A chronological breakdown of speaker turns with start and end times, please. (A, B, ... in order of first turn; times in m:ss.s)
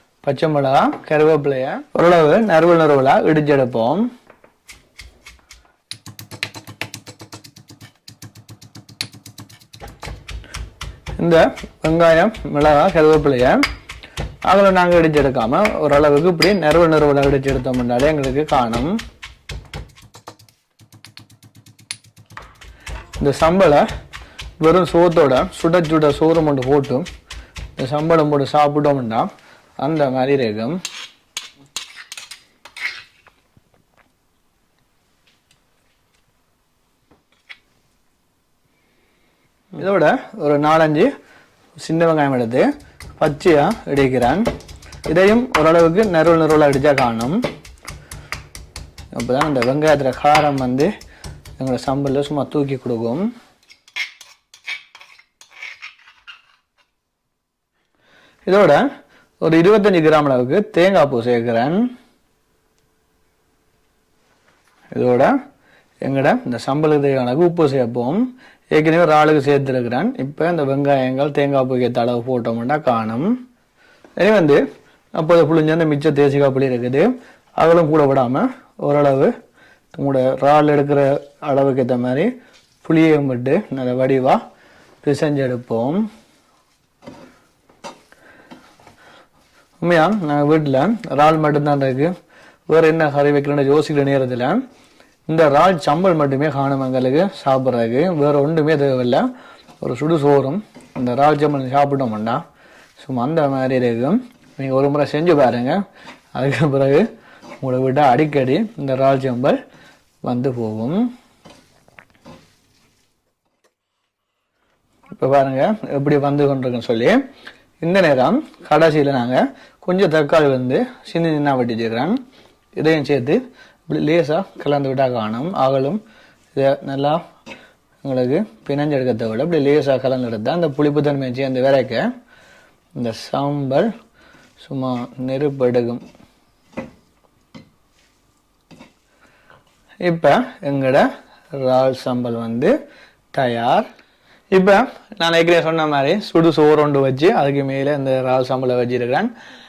0:00.2-0:04.1 A
0:11.2-0:13.6 A
0:14.4-0:19.0 A
0:23.2-0:23.8 A
0:24.6-0:27.0 A
0:27.8-0:29.3 A
0:29.8-0:30.8 A
0:39.7-0:41.1 A
0:41.8-0:42.7 A
0:43.2-0:44.5 A
0:45.1-0:47.4 A
0:49.1-0:50.9 A
0:51.6-0:53.3 A
0:58.4-0:58.8 A
0:59.4-1:01.9 A
1:04.9-1:05.3 A
1:06.0-1:13.3 A
1:14.2-1:14.6 A
1:15.1-1:19.3 A
1:19.9-1:22.3 A
1:22.8-1:24.4 A
1:25.0-1:26.0 A
1:29.8-1:32.1 A
1:32.7-1:34.6 A
1:35.3-1:39.3 A
1:39.8-1:42.4 A
1:43.0-1:45.8 A
1:46.3-1:47.1 A
1:47.6-1:49.6 A
1:50.2-1:51.0 A
1:55.1-1:57.2 A
1:57.8-2:02.2 A
2:02.8-2:06.0 A
2:06.5-2:07.2 A
2:08.0-2:12.1 A
2:13.0-2:13.9 A
2:14.6-2:16.0 A
2:20.0-2:22.7 A
2:23.3-2:23.9 A
2:24.5-2:29.3 A